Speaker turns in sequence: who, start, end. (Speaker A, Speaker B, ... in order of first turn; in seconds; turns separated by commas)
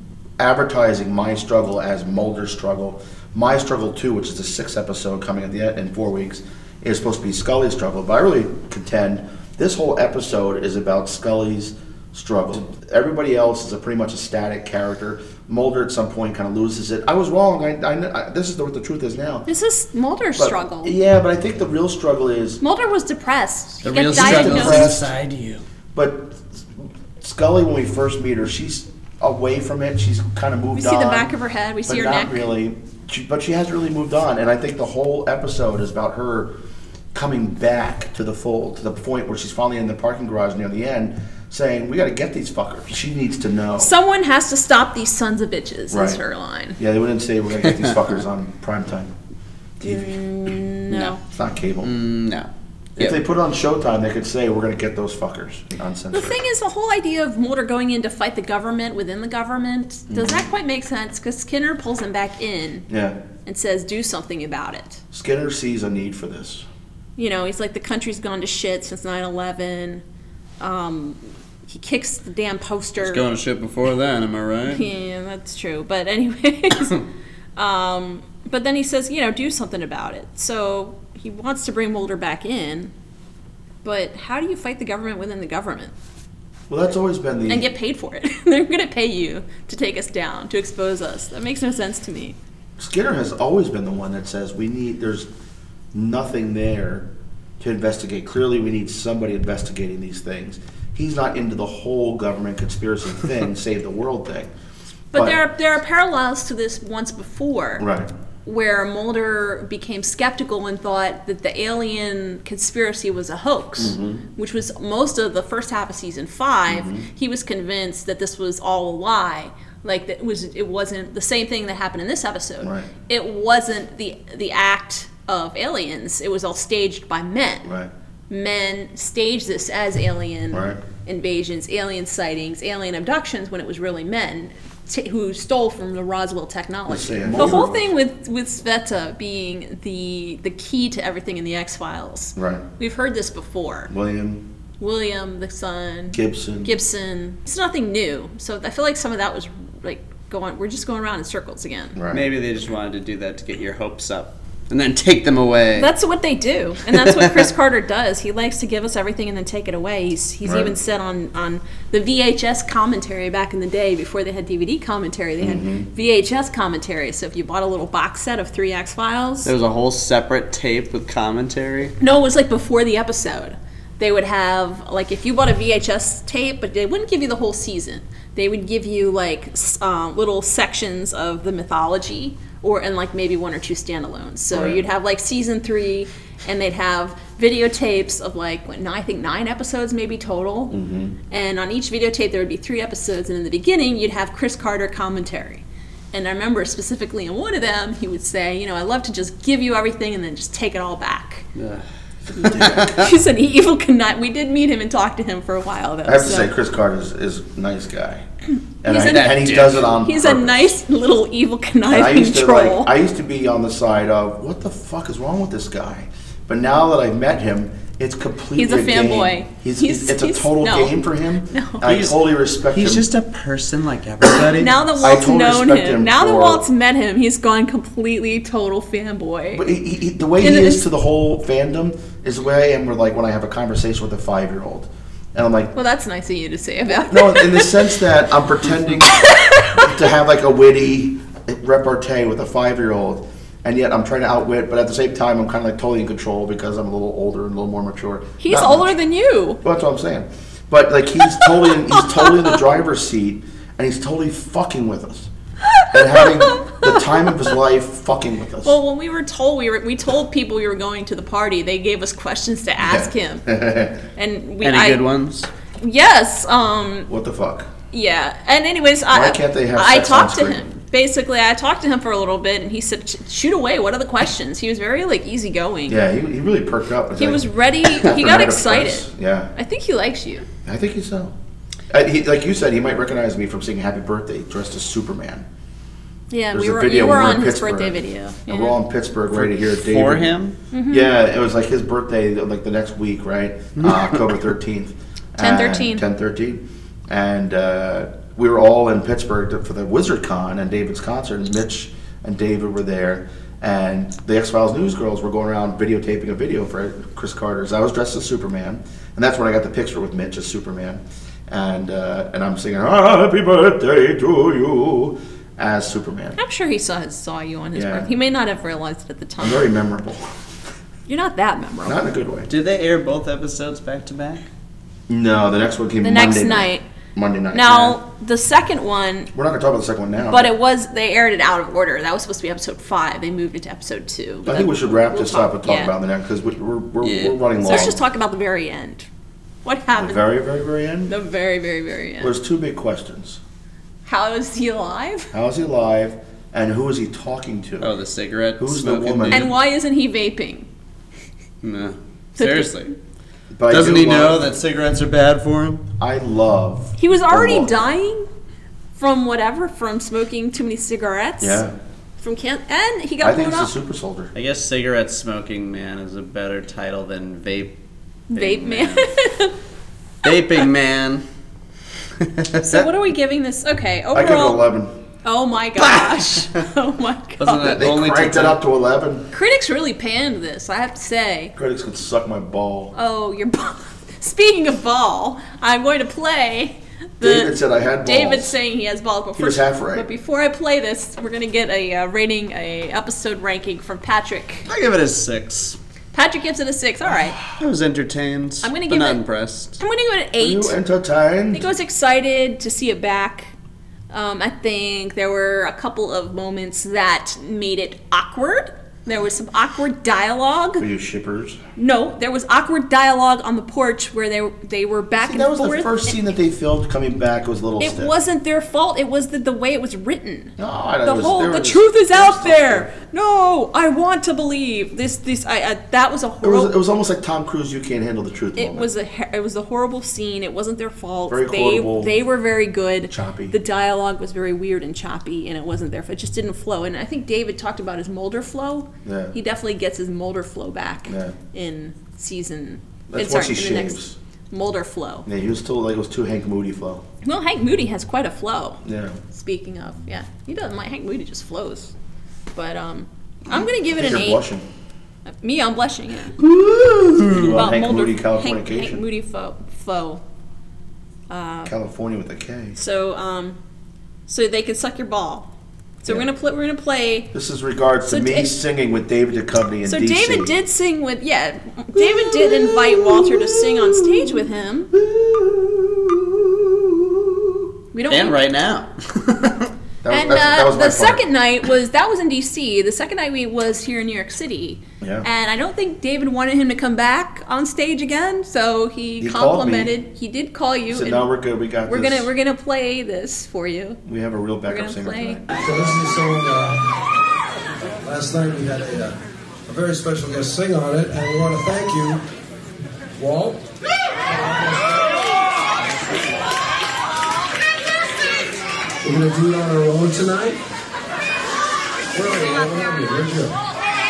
Speaker A: 0.4-19.5, Speaker B: 19.5-20.9, Speaker A: 20.4-22.6, Speaker B: 22.6-25.0, Speaker C: 23.8-25.6, Speaker A: 24.1-25.1, Speaker A: 25.9-31.3, Speaker B: 30.8-32.5, Speaker A: 31.9-36.5, Speaker A: 37.1-43.9, Speaker B: 43.8-46.8, Speaker A: 45.9-46.2, Speaker A: 46.8-49.1, Speaker B: 49.8-51.2, Speaker A: 51.3-51.9, Speaker C: 51.8-53.2, Speaker A: 53.0-56.4, Speaker B: 56.1-62.9, Speaker A: 60.1-60.5, Speaker A: 62.9-63.2, Speaker B: 63.5-65.0, Speaker A: 65.1-66.7, Speaker B: 67.2-70.0, Speaker B: 70.6-73.2, Speaker C: 73.0-74.8, Speaker B: 74.7-77.0, Speaker B: 77.6-82.9, Speaker B: 83.8-85.9, Speaker A: 86.7-87.7, Speaker B: 87.5-92.4, Speaker A: 92.8-95.3, Speaker A: 95.9-97.1, Speaker A: 97.6-104.5, Speaker B: 105.1-107.8, Speaker A: 105.1-105.4, Speaker A: 107.8-108.1, Speaker B: 108.5-127.7, Speaker A: 113.8-114.2, Speaker A: 116.7-117.1, Speaker A: 122.6-122.9, Speaker A: 127.7-127.9, Speaker B: 128.3-143.9, Speaker A: 130.5-130.8, Speaker A: 136.9-137.9, Speaker A: 142.4-142.6, Speaker A: 143.9-144.4, Speaker B: 144.8-152.0, Speaker A: 146.1-146.7, Speaker A: 152.0-152.2, Speaker C: 152.1-155.9, Speaker B: 155.8-169.5, Speaker C: 157.0-157.5, Speaker A: 160.4-160.7, Speaker A: 165.4-165.9, Speaker C: 169.4-172.0, Speaker B: 172.0-190.8, Speaker A: 184.5-184.8, Speaker A: 190.7-191.2, Speaker B: 191.3-201.5, Speaker C: 201.6-201.8, Speaker B: 202.3-206.5, Speaker A: 202.4-203.0, Speaker C: 202.4-203.0, Speaker A: 206.1-208.3, Speaker A: 208.8-210.8, Speaker B: 208.8-212.9, Speaker C: 208.9-209.9, Speaker A: 211.9-223.1, Speaker B: 218.6-221.9, Speaker C: 221.8-224.8, Speaker B: 224.6-229.6, Speaker A: 225.0-226.7, Speaker A: 229.5-235.7, Speaker B: 230.4-230.9, Speaker B: 235.7-237.9, Speaker A: 237.0-248.9, Speaker B: 239.1-239.9, Speaker B: 248.4-249.6, Speaker A: 249.6-255.3, Speaker B: 251.3-252.6, Speaker B: 255.7-257.1, Speaker A: 255.9-258.8, Speaker B: 258.6-263.5, Speaker A: 262.8-264.0, Speaker B: 264.1-265.0, Speaker C: 264.6-265.5, Speaker B: 265.8-267.1, Speaker A: 267.1-267.7, Speaker B: 267.9-276.0, Speaker A: 269.1-270.6, Speaker A: 275.9-279.5, Speaker B: 277.2-280.5, Speaker A: 280.6-281.3, Speaker A: 281.9-285.5, Speaker B: 286.3-288.8, Speaker A: 286.5-290.3, Speaker C: 289.3-290.6, Speaker B: 290.7-291.1, Speaker A: 290.9-316.4, Speaker C: 293.8-294.1, Speaker B: 295.4-296.0, Speaker B: 316.4-319.7, Speaker A: 317.7-318.1, Speaker A: 319.4-320.2, Speaker B: 321.1-322.0, Speaker A: 321.9-322.5, Speaker C: 322.5-324.5, Speaker A: 325.1-328.0, Speaker B: 326.0-326.9, Speaker B: 327.5-329.3, Speaker A: 329.3-330.5, Speaker B: 330.3-335.9, Speaker A: 334.4-338.0, Speaker C: 337.0-337.4, Speaker B: 337.6-339.1, Speaker B: 339.6-340.3, Speaker A: 340.0-341.1, Speaker B: 341.1-342.3, Speaker A: 342.2-343.4, Speaker B: 344.1-345.3, Speaker A: 345.3-347.9, Speaker C: 347.8-349.5, Speaker A: 348.6-349.5, Speaker B: 349.3-350.7, Speaker C: 351.6-352.9, Speaker B: 352.4-352.9, Speaker A: 353.5-354.5, Speaker C: 353.7-355.9, Speaker A: 356.0-357.8, Speaker B: 357.0-358.3, Speaker B: 359.0-361.6, Speaker A: 361.4-361.7, Speaker B: 362.2-363.7, Speaker A: 363.2-364.3, Speaker C: 364.3-367.8, Speaker B: 368.3-369.5, Speaker C: 368.3-369.1, Speaker C: 370.2-371.2, Speaker C: 372.2-372.9, Speaker B: 372.6-374.7, Speaker A: 374.1-374.9, Speaker B: 375.2-377.8, Speaker C: 375.8-376.5, Speaker C: 377.4-378.6, Speaker A: 377.7-379.3, Speaker B: 379.3-381.5, Speaker A: 381.6-382.9, Speaker B: 382.9-394.7, Speaker A: 387.2-388.6, Speaker A: 389.4-390.1, Speaker C: 394.7-395.8, Speaker B: 396.1-397.4, Speaker C: 397.4-399.8, Speaker B: 398.6-399.2, Speaker B: 399.8-400.8, Speaker A: 400.4-401.7, Speaker B: 401.5-403.5, Speaker B: 404.1-410.9, Speaker A: 410.8-411.6, Speaker B: 411.8-416.2, Speaker A: 415.2-418.1, Speaker B: 417.8-426.7, Speaker A: 420.6-422.9, Speaker A: 426.4-428.9, Speaker B: 428.6-444.0, Speaker A: 431.3-432.1, Speaker A: 433.1-433.6, Speaker A: 439.1-439.4, Speaker A: 441.1-441.4, Speaker A: 443.1-444.1, Speaker B: 444.5-445.3, Speaker A: 445.3-447.0, Speaker B: 447.2-451.9, Speaker A: 448.8-449.2, Speaker B: 452.6-454.4, Speaker A: 453.9-454.6, Speaker B: 455.4-456.4, Speaker C: 456.4-457.6, Speaker A: 457.2-459.0, Speaker B: 457.4-460.2, Speaker B: 461.3-461.7, Speaker A: 461.7-462.8, Speaker B: 462.8-463.6, Speaker B: 464.3-465.5, Speaker B: 466.0-467.3, Speaker A: 467.3-470.5, Speaker B: 468.1-468.5, Speaker B: 469.9-474.9, Speaker A: 472.0-474.1, Speaker A: 474.9-477.7, Speaker B: 477.9-478.4, Speaker C: 478.1-479.7, Speaker A: 480.0-481.2, Speaker B: 480.1-491.3, Speaker A: 485.0-485.3, Speaker A: 489.2-489.9, Speaker A: 490.9-492.3, Speaker B: 491.9-494.0, Speaker A: 494.1-496.0, Speaker B: 494.7-495.4, Speaker D: 495.6-496.9, Speaker D: 498.0-502.2, Speaker D: 503.2-503.7, Speaker D: 504.2-505.3, Speaker D: 505.8-506.5, Speaker D: 509.0-510.6, Speaker D: 512.1-513.5